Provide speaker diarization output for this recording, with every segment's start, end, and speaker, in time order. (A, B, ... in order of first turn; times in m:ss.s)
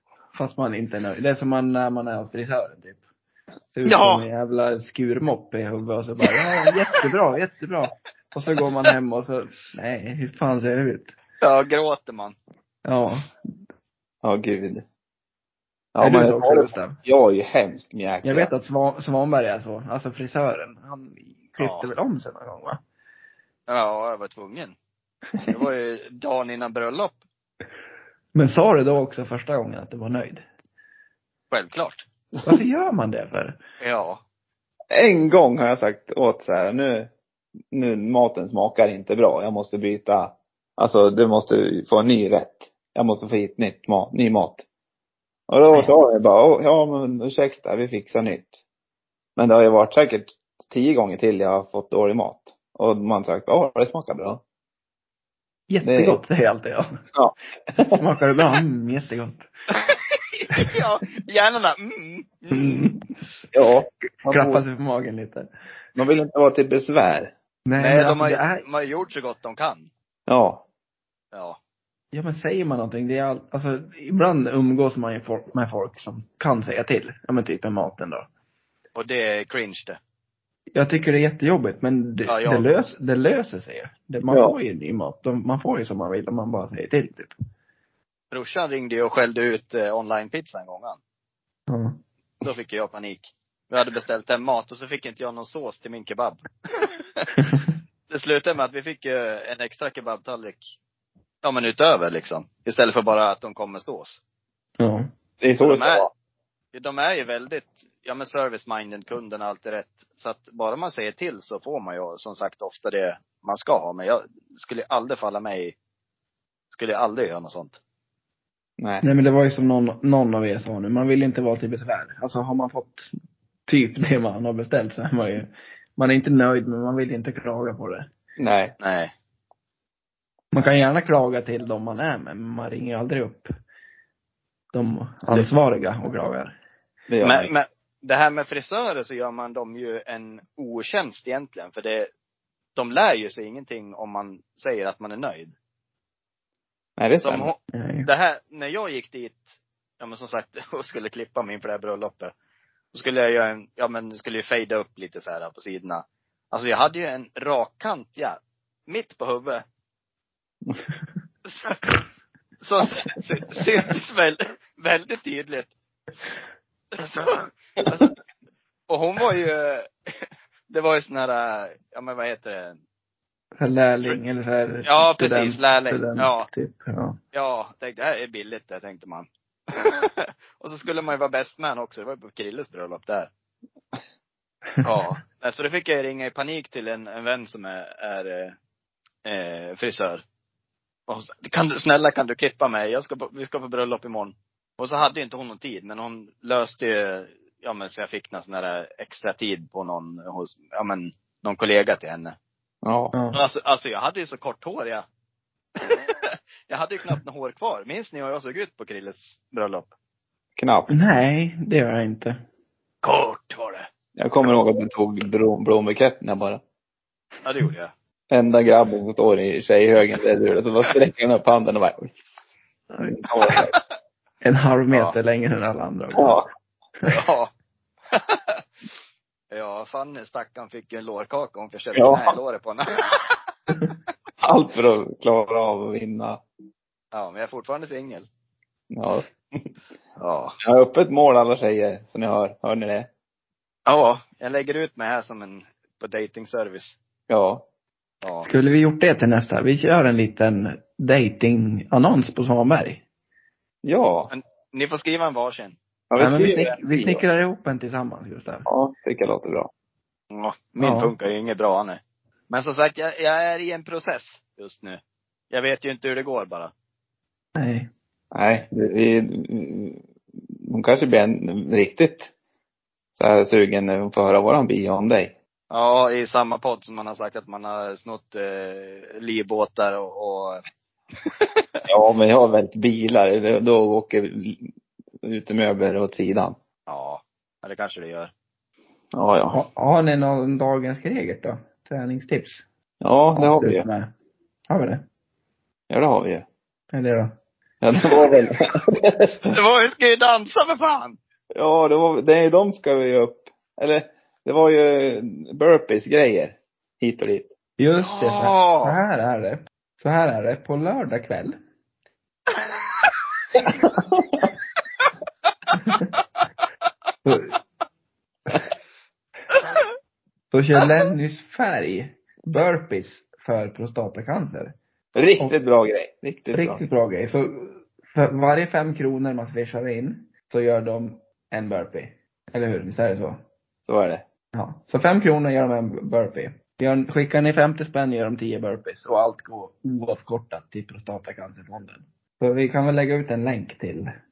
0:00.3-0:03.0 A
0:03.7-0:11.1 A
0:03.8-0:04.3 B
0:11.4-0:12.4 B
0:12.8-0:13.3 A
0:14.2-0:14.8 C
0:15.9-0:18.5 C
0:16.0-0:17.0 A
0:18.2-0:22.8 A
0:21.6-0:21.9 B
0:23.7-0:24.8 B
0:25.5-0:27.2 B
0:28.3-0:30.4 A
0:31.5-0:32.0 B
0:32.4-0:33.6 A
0:33.8-0:34.2 B
0:34.9-0:37.1 C
0:37.7-0:44.6 C
0:45.5-0:48.6 C
0:49.4-0:54.4 C
0:55.7-0:57.0 A
0:55.8-0:56.2 C
0:57.1-0:58.0 C
0:57.8-0:59.5 A
0:59.8-1:02.9 B
1:02.5-1:03.1 A
1:03.5-1:04.6 C
1:04.2-1:05.5 A
1:06.0-1:07.3 C
1:07.7-1:08.6 A
1:07.8-1:09.9 B
1:10.3-1:10.6 C
1:11.3-1:11.6 B
1:12.1-1:18.3 A
1:18.9-1:20.0 B
1:20.7-1:27.3 A
1:22.2-1:22.6 B
1:24.3-1:24.5 C
1:28.3-1:31.0 B
1:31.7-1:32.0 A
1:32.4-1:37.3 B
1:38.1-1:40.6 B
1:41.4-1:44.2 B
1:44.8-1:45.1 A
1:45.4-1:46.1 C
1:45.6-1:46.1 B
1:46.7-1:55.7 B
1:56.7-1:57.8 B
1:58.8-1:59.0 C
1:59.0-2:03.1 A
2:03.7-2:08.1 A
2:08.4-2:08.7 C
2:08.8-2:09.1 B
2:10.5-2:13.5 A
2:14.7-2:16.6 A
2:17.1-2:17.5 C
2:17.2-2:22.1 B
2:22.8-2:25.5 B
2:27.0-2:27.5 C
2:27.2-2:29.4 B
2:27.7-2:28.1 A
2:30.0-2:32.3 B
2:32.9-2:39.6 B
2:41.4-2:42.0 B
2:42.6-2:45.7 B
2:46.9-2:48.1 B
2:48.9-2:52.8 B
2:53.6-2:57.2 A
2:54.8-2:56.5 B
2:57.3-3:03.3 B
3:04.8-3:08.5 B
3:09.2-3:10.2 B
3:11.1-3:22.4 B
3:22.8-3:23.1 C
3:23.1-3:23.4 A
3:23.3-3:25.0 B
3:25.8-3:29.9 B
3:30.6-3:30.9 C
3:30.9-3:32.4 A
3:33.0-3:33.9 B
3:34.2-3:36.6 C
3:37.4-3:37.9 B
3:38.3-3:42.3 C
3:42.9-3:43.7 A
3:43.2-3:43.6 C
3:44.4-3:46.4 A
3:44.9-3:45.2 B
3:46.2-3:46.4 C
3:47.0-3:47.5 B
3:48.1-3:48.6 B
3:49.5-3:53.4 B
3:51.9-3:52.4 C
3:54.4-3:56.4 C
3:57.1-3:58.3 B
3:58.9-3:59.7 C
4:00.2-4:00.6 B
4:00.6-4:03.1 C
4:03.9-4:07.0 B
4:07.3-4:07.6 C
4:08.2-4:08.5 B
4:08.4-4:13.0 A
4:13.8-4:14.3 C
4:14.3-4:15.8 B
4:16.1-4:17.2 C
4:16.2-4:18.7 A
4:18.6-4:19.7 C
4:20.3-4:25.0 B
4:20.8-4:21.1 A
4:25.5-4:26.7 B
4:27.6-4:27.9 A
4:28.3-4:30.0 C
4:30.6-4:32.3 C
4:33.1-4:35.3 C
4:35.7-4:40.6 B
4:41.2-4:41.6 B
4:41.9-4:46.6 C
4:46.9-4:48.3 B
4:49.1-4:49.6 C
4:49.5-4:52.6 A
4:53.0-4:53.8 C
4:53.4-4:54.1 A
4:54.7-4:55.0 A
4:55.9-4:56.4 C
4:56.9-4:57.3 A
4:57.8-4:59.4 C
4:59.4-5:01.2 B
5:01.5-5:07.5 C
5:07.8-5:11.6 A
5:08.0-5:09.0 B
5:12.7-5:13.1 B
5:13.6-5:14.4 C
5:15.7-5:16.1 A
5:17.2-5:17.6 A
5:20.5-5:24.8 A
5:25.1-5:26.8 C
5:26.5-5:33.4 A
5:33.8-5:34.2 C
5:34.5-5:44.1 A